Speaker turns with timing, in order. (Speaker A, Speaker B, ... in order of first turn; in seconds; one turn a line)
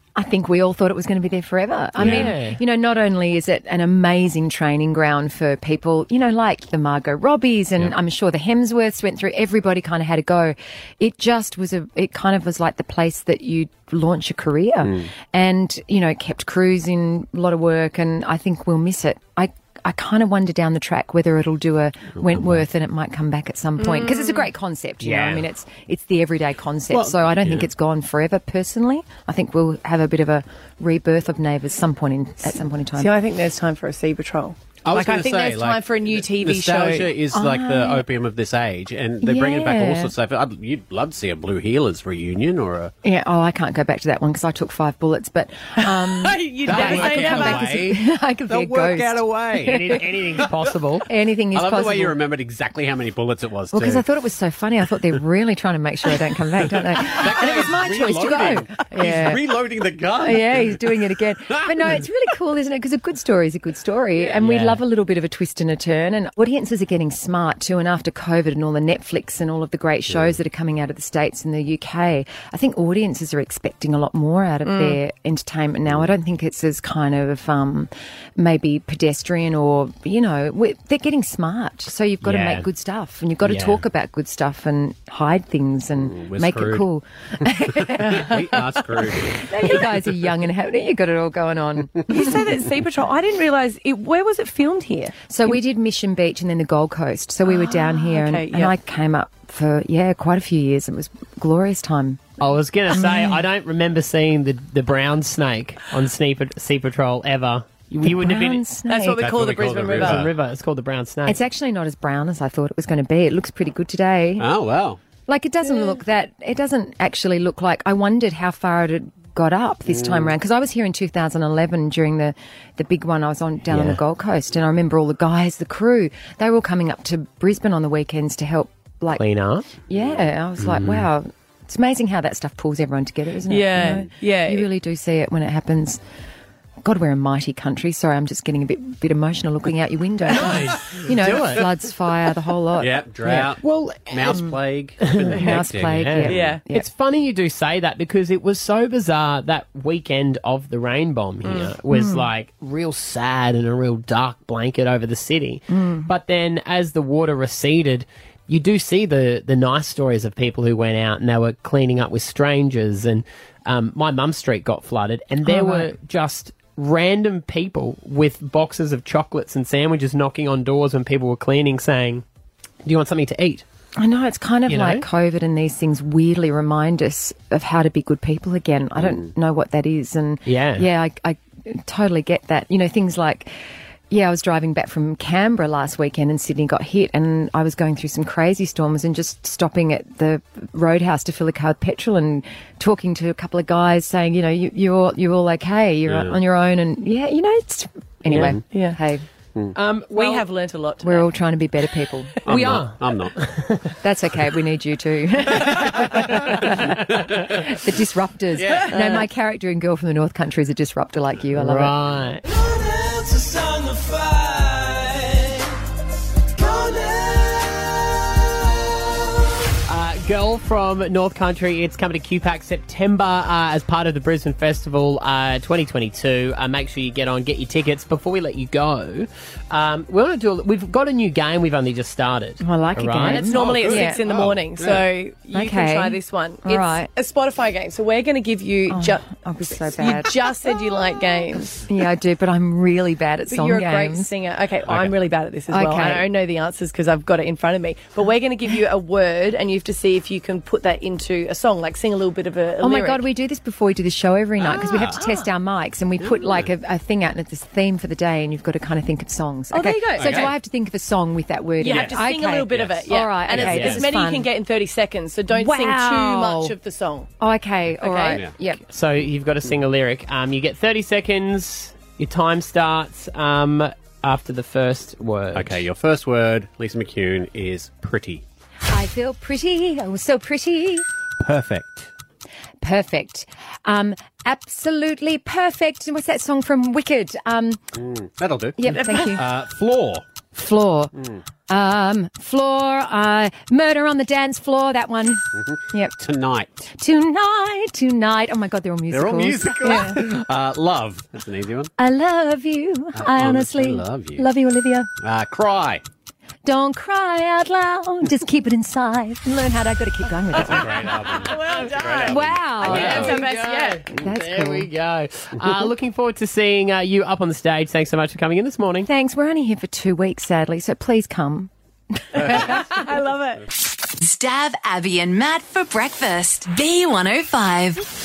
Speaker A: 0.2-33.1
Speaker B: 2.0-2.6
Speaker C: 2.0-2.3
Speaker C: 14.8-15.1
Speaker C: 22.2-22.7
Speaker D: 23.8-24.5
Speaker B: 25.0-25.5
Speaker C: 26.9-27.7
Speaker D: 33.0-37.1
Speaker C: 34.9-42.9
Speaker A: 37.3-38.0
Speaker A: 39.2-40.1
Speaker A: 43.0-50.0
Speaker D: 46.2-47.7
Speaker C: 46.7-50.5
Speaker B: 49.6-51.1
Speaker A: 51.1-52.1
Speaker C: 51.5-54.0
Speaker A: 53.7-59.4
Speaker C: 57.0-60.9
Speaker A: 60.2-88.3
Speaker C: 61.5-62.1
Speaker B: 64.2-64.8
Speaker C: 70.1-70.4
Speaker D: 74.7-75.0
Speaker C: 75.9-76.1
Speaker B: 82.2-82.7
Speaker B: 83.4-83.8
Speaker C: 86.0-86.9
Speaker C: 87.8-89.8
Speaker D: 88.1-88.4
Speaker A: 89.5-92.5
Speaker D: 89.5-89.8
Speaker D: 92.1-95.5
Speaker A: 95.3-102.3
Speaker D: 97.5-98.7
Speaker B: 102.4-108.6
Speaker A: 102.9-103.4
Speaker A: 108.0-109.2
Speaker D: 108.9-110.3
Speaker C: 109.1-110.3
Speaker B: 109.9-111.4
Speaker A: 111.3-114.5
Speaker C: 114.4-115.0
Speaker A: 115.3-129.2
Speaker C: 119.9-120.3
Speaker B: 123.7-124.0
Speaker B: 129.2-129.7
Speaker A: 129.9-136.0
Speaker C: 129.9-130.3
Speaker B: 130.6-131.1
Speaker D: 133.5-134.7
Speaker A: 136.8-143.5
Speaker B: 140.3-141.7
Speaker C: 142.8-146.4
Speaker B: 143.6-144.5
Speaker B: 145.1-145.4
Speaker A: 145.4-146.9
Speaker B: 145.9-172.2
Speaker D: 146.3-146.6
Speaker D: 151.4-151.7
Speaker A: 151.9-152.3
Speaker A: 155.7-156.1
Speaker A: 165.4-165.9
Speaker B: 172.8-173.6
Speaker A: 174.0-183.5
Speaker B: 174.7-175.1
Speaker C: 179.0-179.3
Speaker B: 180.5-180.9
Speaker A: 184.1-199.2
Speaker C: 196.1-196.4
Speaker C: 198.3-198.6
Speaker D: 198.7-199.0
Speaker B: 199.8-200.5
Speaker D: 200.2-201.3
Speaker A: 201.0-202.4
Speaker C: 202.5-203.4
Speaker B: 202.5-203.9
Speaker A: 204.0-211.9
Speaker C: 208.6-208.8
Speaker B: 211.6-212.4
Speaker E: 212.5-215.7
Speaker E: 216.5-218.7
Speaker B: 219.9-233.7
Speaker A: 232.6-234.2
Speaker D: 233.3-239.2
Speaker C: 233.6-235.1
Speaker A: 235.5-237.1
Speaker A: 238.9-240.4
Speaker D: 239.9-241.8
Speaker A: 241.9-244.3
Speaker D: 243.5-253.2
Speaker C: 244.9-245.1
Speaker A: 245.7-246.3
Speaker A: 252.8-264.5
Speaker C: 254.7-255.1
Speaker D: 254.7-255.5
Speaker C: 256.2-256.7
Speaker D: 259.7-260.5
Speaker C: 260.2-260.5
Speaker D: 261.8-267.3
Speaker C: 262.7-263.0
Speaker B: 263.6-264.1
Speaker A: 265.6-266.8
Speaker A: 267.4-268.8
Speaker D: 268.0-268.4
Speaker B: 268.9-275.9
Speaker C: 275.5-278.4
Speaker A: 278.9-281.1
Speaker C: 281.4-282.1
Speaker A: 282.8-287.8
Speaker C: 287.9-290.3
Speaker A: 288.8-289.5
Speaker A: 290.5-291.1
Speaker C: 291.1-291.4
Speaker A: 291.7-296.1
Speaker C: 295.6-296.9
Speaker A: 297.0-300.2
Speaker C: 299.1-301.9
Speaker A: 302.0-305.1
Speaker C: 303.2-304.5
Speaker C: 305.2-306.0
Speaker A: 306.6-311.2
Speaker C: 310.6-313.4
Speaker D: 310.7-314.0
Speaker A: 312.2-313.5
Speaker B: 312.8-319.1
Speaker A: 314.1-314.9
Speaker A: 319.1-323.0
Speaker D: 322.4-323.6
Speaker F: 324.2-328.0